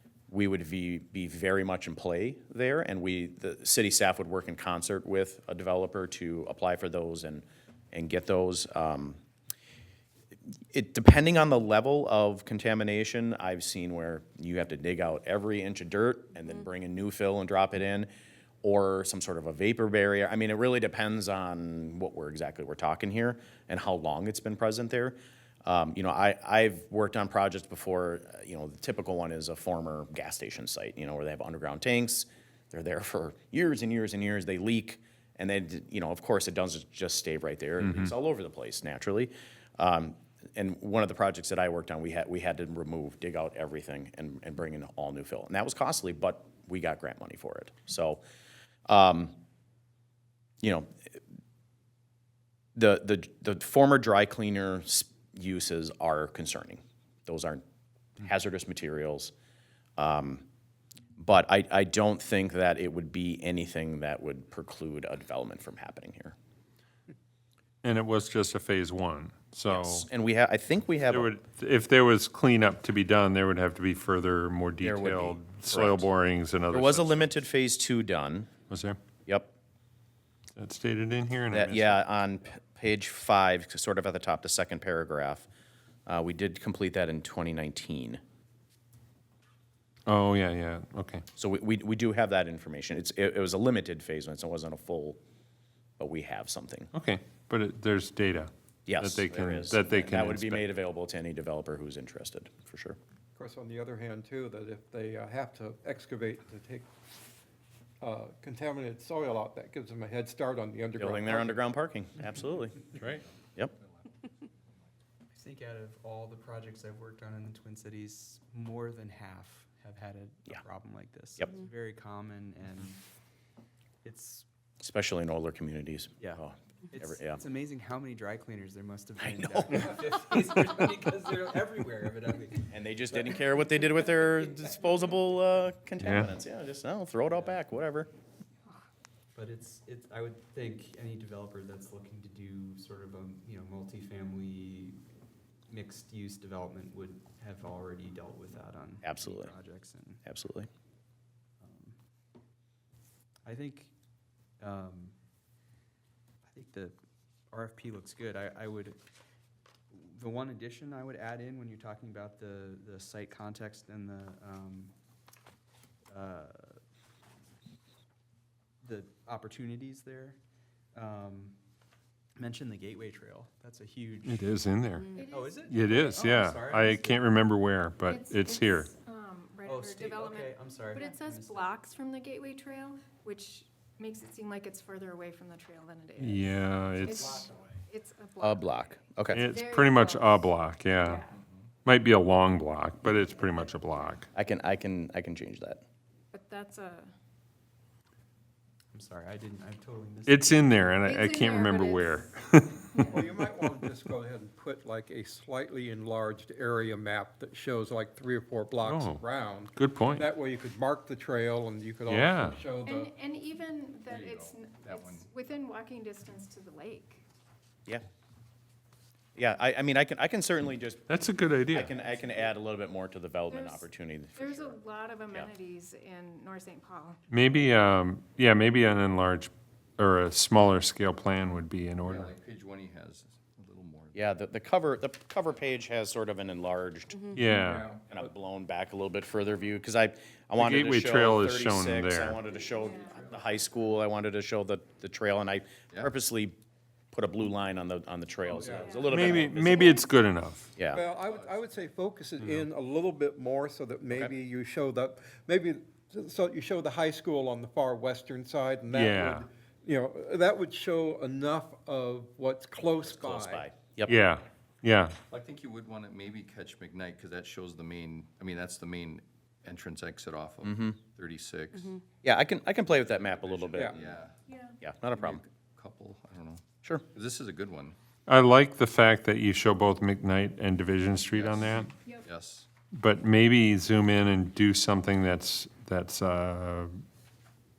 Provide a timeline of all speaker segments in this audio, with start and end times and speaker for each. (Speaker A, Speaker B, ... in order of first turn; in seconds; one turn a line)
Speaker A: 0.3-9.2
Speaker A: 10.7-18.1
Speaker A: 18.6-48.2
Speaker A: 48.9-49.4
Speaker A: 50.6-51.2
Speaker A: 52.8-57.6
Speaker A: 58.2-59.3
Speaker A: 60.0-60.4
Speaker A: 61.2-66.3
Speaker B: 67.8-70.1
Speaker A: 69.7-71.3
Speaker B: 71.1-77.3
Speaker A: 74.8-76.1
Speaker A: 76.7-78.5
Speaker B: 78.7-79.0
Speaker A: 79.3-79.5
Speaker B: 80.5-82.0
Speaker A: 81.5-85.5
Speaker A: 86.1-88.2
Speaker B: 90.1-91.2
Speaker A: 91.4-95.2
Speaker A: 96.0-96.9
Speaker B: 96.9-100.7
Speaker A: 98.9-103.0
Speaker C: 103.4-106.9
Speaker C: 108.0-111.6
Speaker A: 111.0-112.8
Speaker B: 113.0-113.2
Speaker D: 113.8-114.5
Speaker E: 115.3-123.0
Speaker E: 124.0-124.5
Speaker A: 124.8-127.4
Speaker E: 126.2-133.3
Speaker A: 129.2-130.0
Speaker A: 132.7-138.1
Speaker B: 136.0-136.3
Speaker E: 137.3-137.6
Speaker E: 139.3-145.0
Speaker E: 145.7-150.2
Speaker A: 149.0-149.5
Speaker A: 150.2-150.7
Speaker E: 151.6-151.9
Speaker E: 153.5-153.9
Speaker E: 154.6-155.2
Speaker E: 156.5-156.9
Speaker E: 157.5-159.0
Speaker E: 159.9-164.9
Speaker E: 166.1-166.8
Speaker E: 168.8-170.4
Speaker E: 170.9-171.6
Speaker E: 172.4-177.4
Speaker B: 174.3-175.1
Speaker F: 175.2-175.7
Speaker B: 175.7-178.9
Speaker F: 178.1-191.4
Speaker E: 179.7-181.8
Speaker B: 186.2-187.5
Speaker E: 187.2-187.7
Speaker A: 188.4-189.4
Speaker B: 189.3-191.2
Speaker B: 191.8-194.3
Speaker A: 194.3-195.8
Speaker F: 196.3-197.1
Speaker E: 198.9-201.0
Speaker B: 200.3-203.2
Speaker F: 201.0-202.3
Speaker F: 202.9-203.2
Speaker E: 203.1-203.4
Speaker C: 203.1-213.1
Speaker B: 208.8-209.2
Speaker B: 209.8-210.3
Speaker B: 212.1-212.6
Speaker F: 212.8-217.2
Speaker D: 214.1-215.3
Speaker A: 219.4-221.1
Speaker B: 221.1-221.9
Speaker A: 221.7-225.5
Speaker F: 223.5-223.8
Speaker F: 224.4-227.2
Speaker B: 227.3-232.3
Speaker D: 232.1-234.3
Speaker A: 234.1-237.5
Speaker B: 237.3-237.9
Speaker D: 237.6-238.0
Speaker A: 238.1-246.6
Speaker B: 240.6-242.4
Speaker F: 242.8-243.2
Speaker A: 247.1-250.0
Speaker C: 248.6-249.3
Speaker F: 248.8-249.1
Speaker B: 249.1-250.8
Speaker A: 250.8-251.0
Speaker C: 250.9-263.7
Speaker D: 251.0-251.9
Speaker B: 258.9-259.4
Speaker A: 263.0-264.2
Speaker B: 264.1-265.2
Speaker D: 265.3-272.0
Speaker A: 270.6-270.9
Speaker A: 272.2-274.2
Speaker D: 273.1-274.4
Speaker F: 274.5-274.8
Speaker A: 274.8-275.4
Speaker D: 275.1-278.0
Speaker B: 278.3-281.9
Speaker D: 281.3-282.7
Speaker B: 282.9-286.9